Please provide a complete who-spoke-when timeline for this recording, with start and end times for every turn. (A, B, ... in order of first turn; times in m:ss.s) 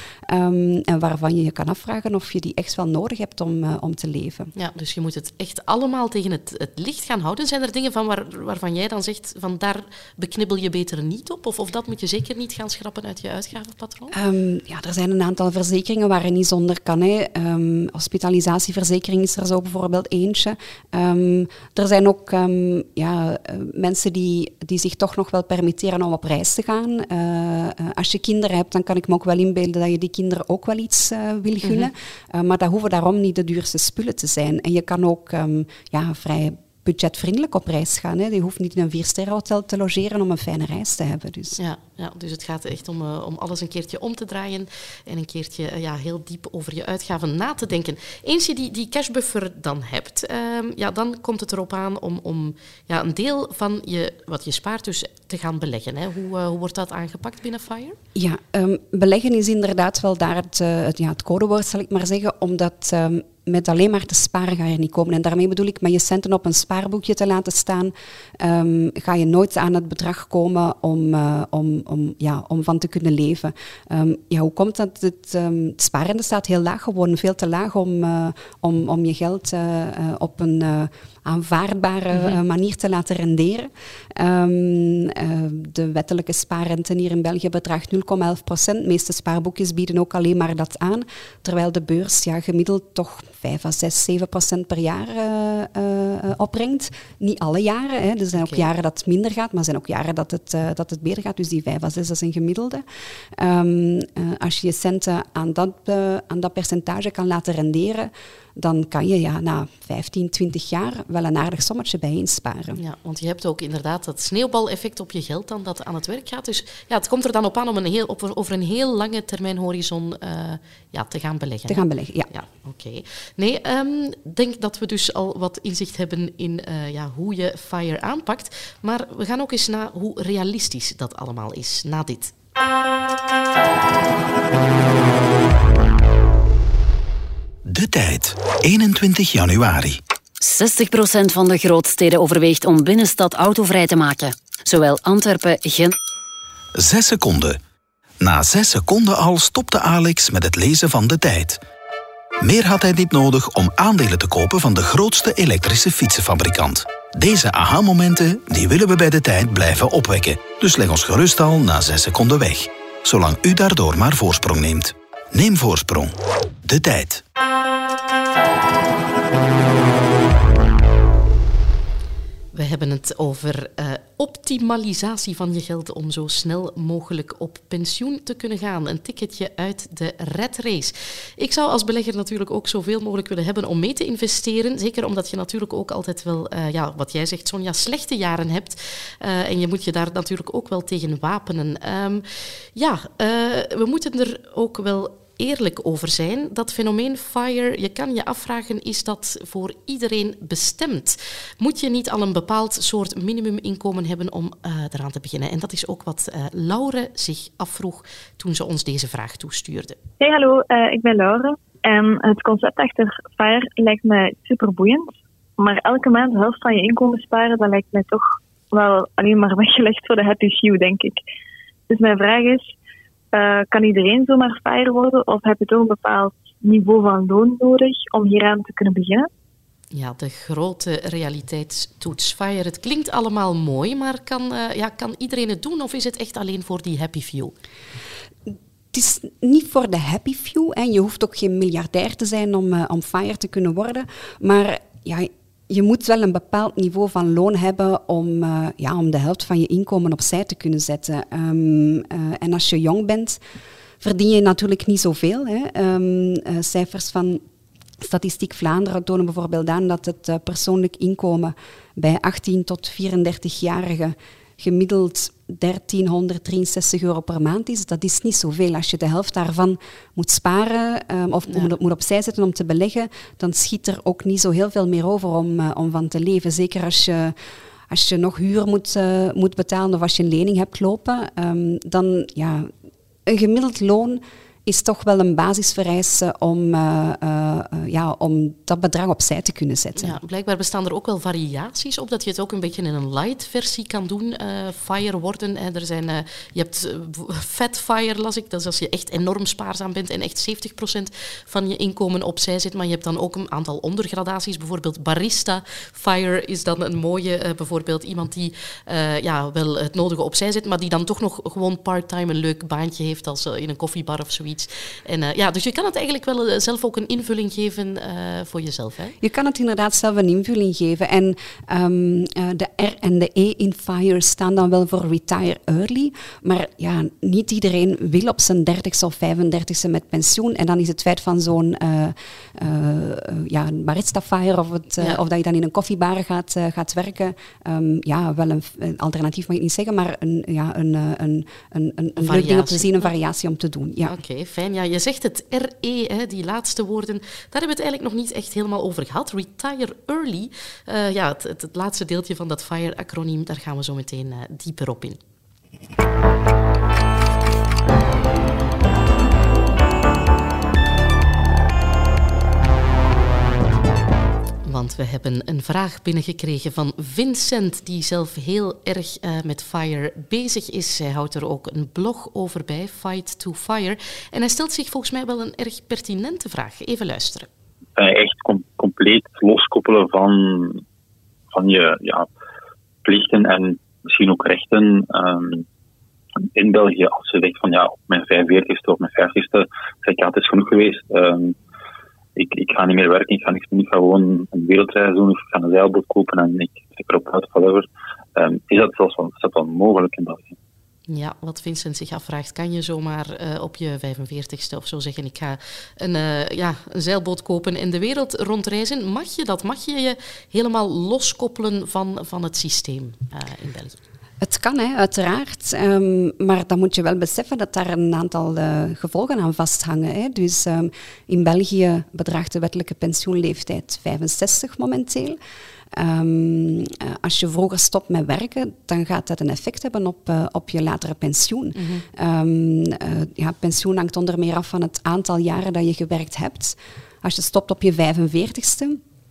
0:00.3-0:04.5 A
0:04.6-0:14.1 B
0:14.1-0:41.6 A
0:31.6-0:31.9 B
0:41.6-0:58.0 B
0:58.2-1:42.8 A
1:22.1-1:22.4 B
1:38.4-1:38.7 B
1:43.4-1:52.8 A
1:52.8-2:12.3 B
2:01.7-2:02.3 A
2:17.7-2:20.0 C
2:20.4-2:26.0 D
2:26.8-2:27.6 C
2:28.2-2:31.6 C
2:32.4-2:47.2 C
2:52.5-3:30.0 B
3:30.2-3:41.2 E
3:41.9-3:42.7 E
3:43.3-3:49.3 E
3:49.9-3:57.5 B
3:58.5-4:13.4 A
4:14.0-4:17.4 A
4:18.0-4:37.3 A
4:31.5-4:31.7 B
4:37.9-4:42.7 A
4:43.3-4:50.2 A
4:50.0-5:19.2 B
5:19.2-5:44.2 A
5:42.2-5:43.1 B
5:44.1-5:55.2 B
6:04.6-6:17.5 B
6:18.0-6:20.8 F
6:21.5-6:22.3 F
6:23.0-6:25.6 F
6:26.6-6:31.5 F
6:32.4-6:40.6 F
6:41.1-6:54.0 B
6:54.4-7:05.4 A
7:05.9-7:19.0 A
7:11.8-7:12.0 B